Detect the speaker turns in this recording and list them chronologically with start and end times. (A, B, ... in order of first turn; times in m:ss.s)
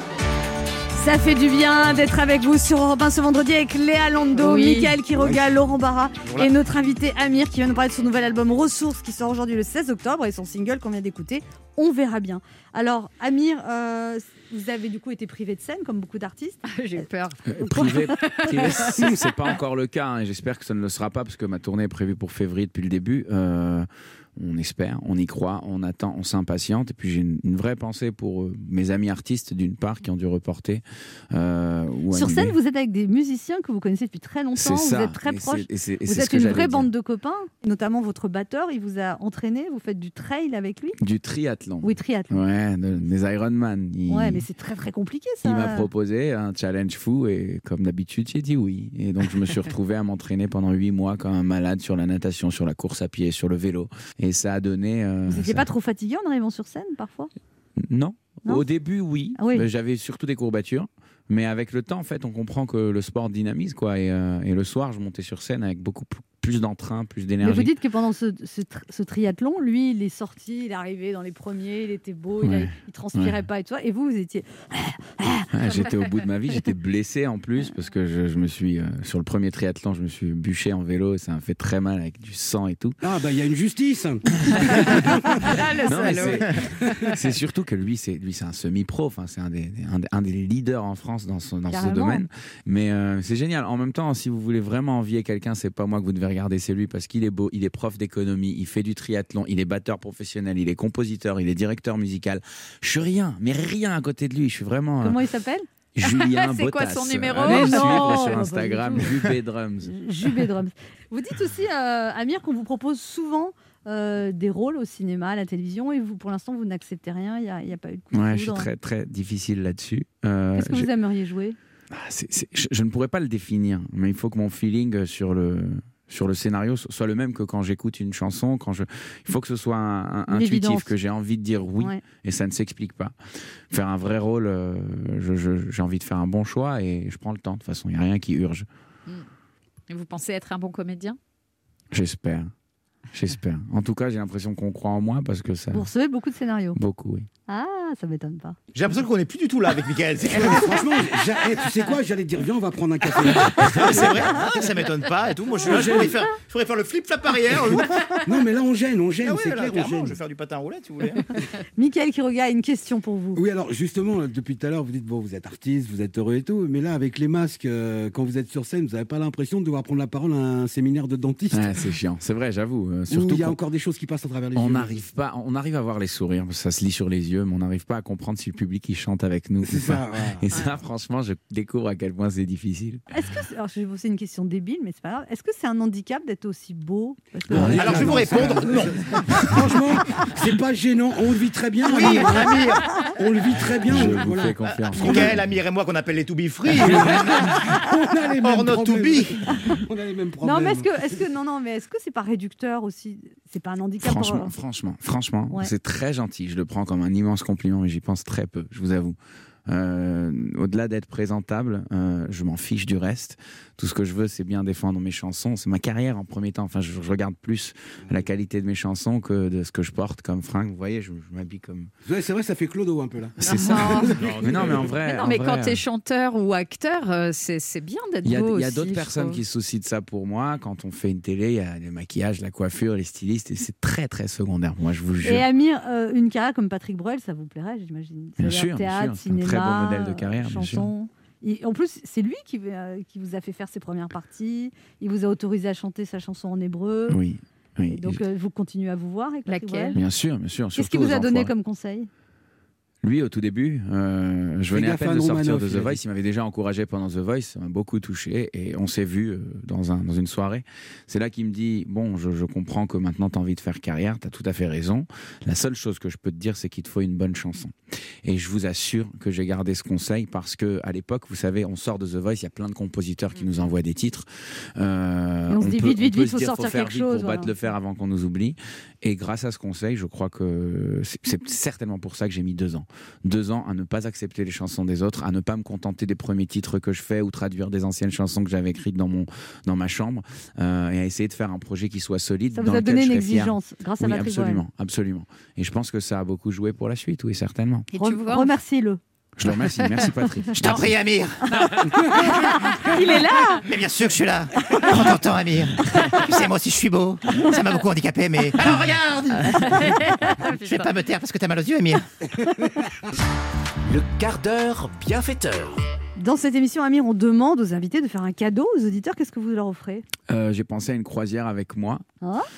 0:01.0-0:16.6 A
0:04.4-0:05.0 B
0:16.6-0:19.2 B
0:17.5-0:32.6 C
0:17.8-0:18.3 A
0:32.1-0:41.0 A
0:34.6-0:36.9 C
0:41.0-0:44.5 C
0:41.8-0:42.4 A
0:44.1-0:45.9 A
0:45.4-0:55.7 C
0:55.3-0:57.3 A
0:57.8-1:07.7 C
0:59.4-0:59.7 A
1:07.4-1:15.8 A
1:12.4-1:13.4 C
1:15.5-1:23.0 C
1:23.0-1:25.6 D
1:24.5-1:25.0 C
1:25.0-1:27.2 B
1:25.8-1:26.5 C
1:25.9-1:26.4 A
1:27.1-1:45.2 C
1:31.7-1:32.2 A
1:45.0-1:45.7 A
1:46.0-1:49.9 C
1:46.0-1:48.4 B
1:47.4-1:49.1 A
1:49.9-1:58.7 A
1:58.1-2:00.9 C
2:00.6-2:01.6 A
2:01.9-2:13.2 C
2:10.3-2:10.9 A
2:13.7-2:18.7 C
2:19.9-2:21.2 B
2:21.9-2:22.5 C
2:23.1-2:25.9 C
2:25.7-2:26.8 A
2:26.8-2:27.3 C
2:27.5-2:28.6 A
2:28.8-2:30.9 E
2:30.3-2:34.5 D
2:33.5-2:38.0 E
2:35.6-2:36.2 D
2:37.6-2:40.2 D
2:39.2-2:41.2 E
2:41.8-2:43.4 A
2:43.4-2:51.9 D
2:51.5-2:53.6 C
2:53.1-2:55.0 D
2:54.6-3:03.0 C
2:59.6-3:00.4 D
3:03.1-3:08.1 A
3:07.5-3:08.1 C
3:07.5-3:15.4 D
3:07.6-3:09.6 E
3:11.9-3:13.0 E
3:13.8-3:15.4 C
3:14.9-3:17.8 E
3:16.7-3:20.9 D
3:18.4-3:19.5 E
3:20.4-3:24.5 A
3:24.0-3:29.2 C
3:29.7-3:41.9 C
3:42.1-3:45.0 D
3:43.4-3:45.8 C
3:43.4-3:49.4 B
3:44.3-3:44.6 E
3:48.2-3:55.5 C
3:55.2-4:07.2 A
3:58.4-4:00.9 C
4:07.1-4:08.2 C
4:07.9-4:10.0 A
4:09.5-4:10.0 B
4:09.9-4:11.5 C
4:10.8-4:12.1 A
4:13.0-4:57.9 C
4:14.7-4:16.0 D
4:35.5-4:37.5 A
4:52.5-4:54.6 A
4:57.9-4:58.5 B
4:58.0-4:59.0 A
4:59.4-5:00.8 C
5:00.5-5:01.7 E
5:02.2-5:03.6 A
5:03.0-5:03.2 B
5:03.7-5:12.0 E
5:09.6-5:10.9 B
5:13.9-5:15.8 F
5:16.2-5:20.0 A
5:20.3-5:22.0 C